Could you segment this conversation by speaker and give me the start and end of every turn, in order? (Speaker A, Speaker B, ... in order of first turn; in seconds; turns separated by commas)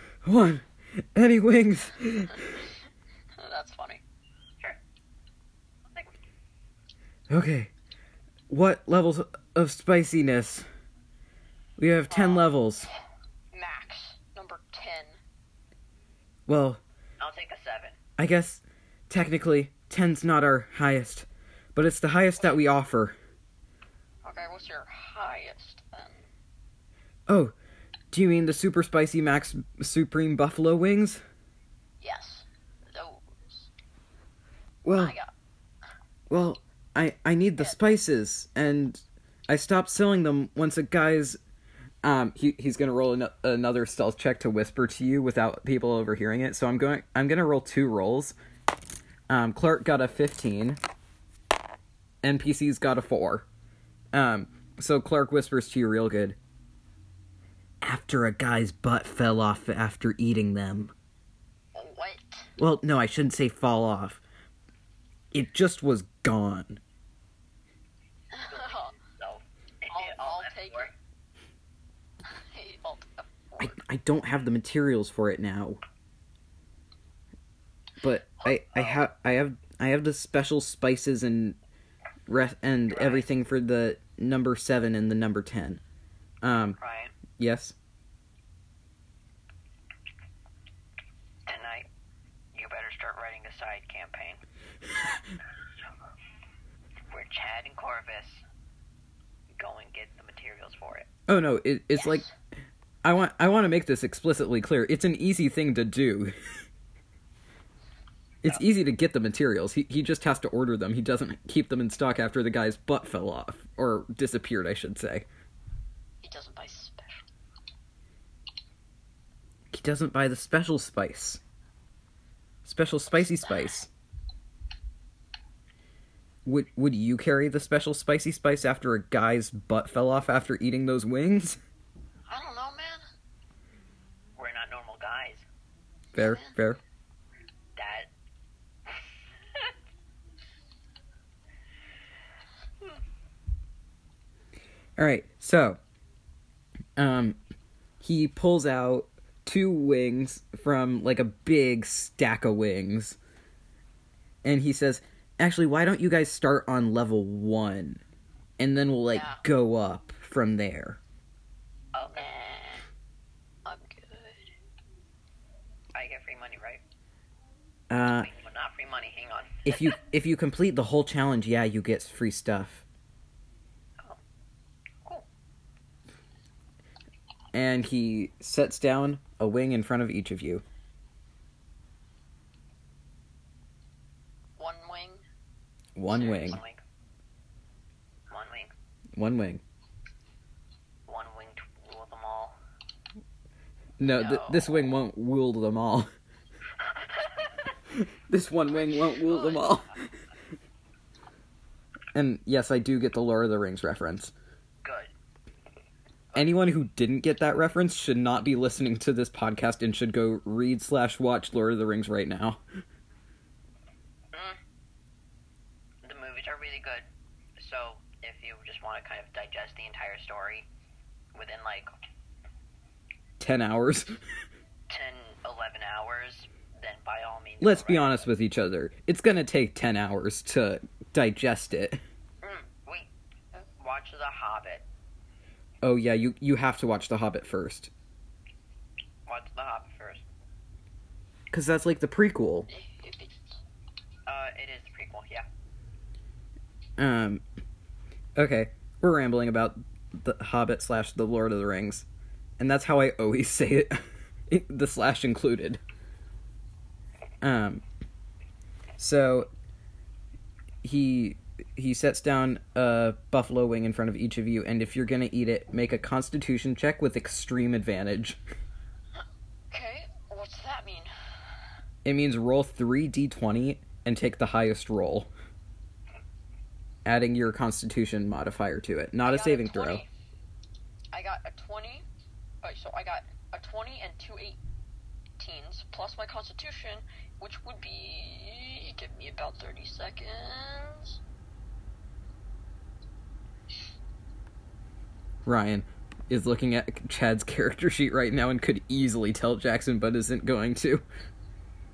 Speaker A: 0.2-2.6, Speaker B: 3.4-4.0, Speaker A: 7.3-7.7, Speaker A: 8.5-10.7, Speaker A: 11.8-12.9, Speaker B: 12.1-12.5, Speaker B: 13.5-15.2, Speaker A: 16.5-16.8, Speaker C: 17.2-18.0, Speaker A: 18.2-23.1, Speaker B: 24.2-26.2, Speaker A: 27.3-27.5, Speaker A: 28.1-31.2, Speaker B: 32.0-33.7, Speaker A: 34.8-35.1, Speaker B: 34.9-35.3, Speaker A: 36.3-41.4, Speaker A: 42.0-48.3, Speaker A: 49.3-50.8, Speaker A: 52.2-53.5, Speaker A: 54.1-56.4, Speaker A: 57.8-60.9, Speaker B: 61.7-62.5, Speaker A: 62.6-64.2, Speaker A: 65.3-66.8, Speaker B: 68.3-68.9, Speaker C: 68.5-70.9, Speaker B: 69.9-70.9, Speaker B: 72.2-73.8, Speaker A: 73.6-75.8, Speaker A: 78.0-81.6, Speaker A: 82.3-85.8, Speaker C: 82.9-83.2, Speaker A: 86.4-86.8, Speaker C: 86.8-87.1, Speaker A: 87.4-87.8, Speaker C: 91.5-91.9, Speaker C: 92.5-94.4, Speaker C: 97.1-98.4, Speaker C: 99.5-101.1, Speaker A: 101.3-102.3, Speaker B: 101.9-102.3, Speaker A: 103.0-106.3, Speaker A: 108.4-115.3, Speaker B: 116.2-117.3, Speaker A: 119.7-121.4, Speaker A: 122.6-123.9, Speaker A: 126.4-131.6, Speaker B: 132.3-133.0, Speaker C: 134.3-135.4, Speaker A: 136.1-136.8, Speaker B: 136.2-136.5, Speaker C: 137.7-138.1, Speaker A: 145.0-145.8, Speaker A: 147.0-147.4, Speaker A: 148.0-153.2, Speaker A: 154.4-158.0, Speaker A: 158.6-161.0, Speaker B: 159.1-159.4, Speaker C: 161.9-162.3, Speaker B: 162.1-162.8, Speaker B: 163.6-164.5, Speaker C: 165.9-166.8, Speaker A: 167.9-168.3, Speaker C: 168.0-169.9, Speaker A: 169.6-172.8, Speaker A: 177.5-180.6, Speaker B: 184.6-185.2, Speaker A: 185.9-186.6, Speaker C: 186.1-186.8, Speaker C: 188.3-188.7, Speaker A: 189.2-189.6, Speaker C: 191.1-192.6, Speaker A: 194.0-196.1, Speaker B: 194.1-194.7, Speaker C: 197.2-197.5, Speaker A: 198.0-200.1, Speaker C: 199.3-199.8, Speaker A: 202.1-204.3, Speaker C: 204.8-205.1, Speaker A: 206.3-212.6, Speaker C: 214.3-214.6, Speaker C: 216.0-217.0, Speaker C: 217.6-220.7, Speaker C: 221.3-221.9, Speaker A: 223.4-224.2, Speaker C: 224.9-228.3, Speaker A: 227.6-232.0, Speaker C: 232.4-233.1, Speaker C: 233.8-234.8, Speaker A: 235.8-237.9, Speaker C: 239.2-240.2, Speaker A: 241.5-242.7, Speaker B: 242.7-243.6, Speaker C: 244.2-245.4, Speaker A: 247.0-247.4, Speaker A: 248.3-252.1, Speaker A: 252.6-255.8, Speaker A: 257.4-257.8, Speaker A: 259.0-259.5, Speaker A: 260.8-268.4, Speaker B: 269.7-271.1, Speaker A: 272.0-275.3, Speaker A: 277.0-280.0, Speaker B: 279.2-280.1, Speaker B: 281.1-282.1, Speaker B: 282.6-284.6, Speaker B: 285.4-291.2, Speaker A: 295.4-301.0